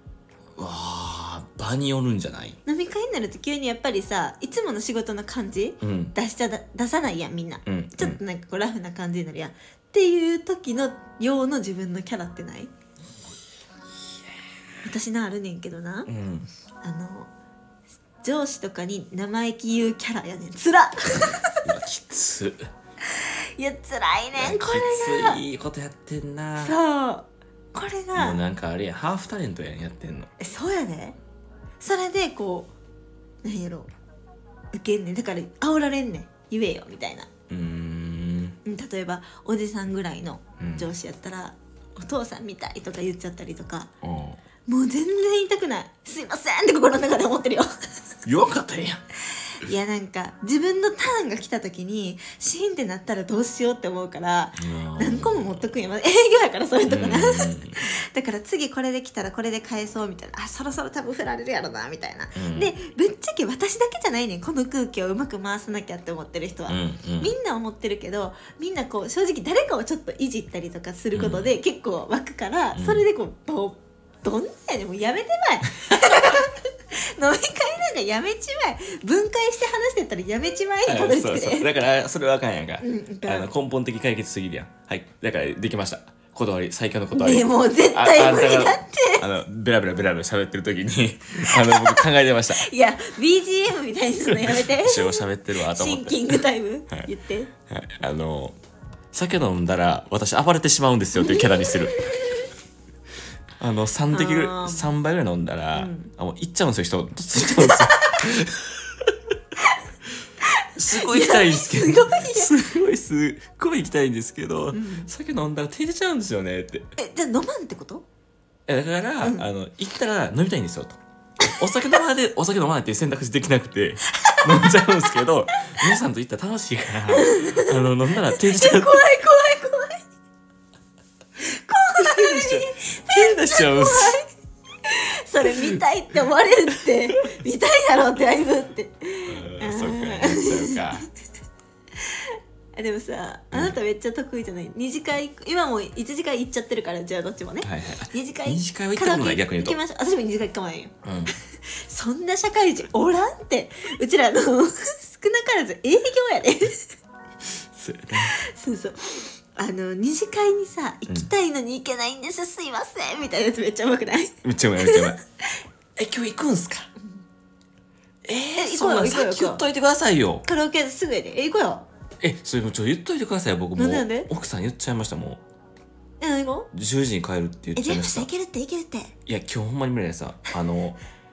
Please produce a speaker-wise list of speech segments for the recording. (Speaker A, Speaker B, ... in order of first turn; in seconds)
Speaker A: 0.6-2.6, 5.8-6.1, 7.7-8.2, 16.1-16.5, 21.6-22.7, 24.4-26.8, 28.1-30.3, 37.5-38.6, 40.6-40.9, 44.0-44.4, 48.2-49.0, 54.6-55.7, 56.9-57.8, 62.3-62.7, 66.7-67.3, 71.1-71.5, 72.7-73.0, 80.8-92.7, 94.2-97.1, 97.7-98.5, 99.1-102.0, 103.6-109.2, 110.7-116.9, 118.7-129.0, 132.0-134.2, 135.4-135.8, 139.3-141.0, 143.5-143.8, 147.6-149.8, 151.0-151.3, 157.6-158.3, 164.4-165.2, 165.9-166.9, 168.2-170.4, 172.2-175.4, 176.7-178.3, 179.2-181.0
Speaker B: 2.6-12.7, 14.8-16.1, 16.8-17.3, 18.2-21.6, 23.1-25.4, 26.6-28.4, 30.4-31.2, 31.8-32.7, 33.4-33.9, 34.7-37.3, 38.6-43.9, 44.7-47.7, 49.5-81.7, 82.8-83.5, 87.1-89.2, 91.5-97.5, 101.2-102.4, 104.1-104.9, 105.7-106.1, 107.4-108.2, 110.6-112.5, 114.7-115.1, 117.0-118.0, 119.2-119.5, 124.2-124.9, 127.1-130.0, 131.4-134.2, 134.8-141.0, 142.0-156.9, 158.2-165.1, 168.6-169.6, 170.4-171.9, 173.8-174.3, 176.2-176.7, 177.8-179.1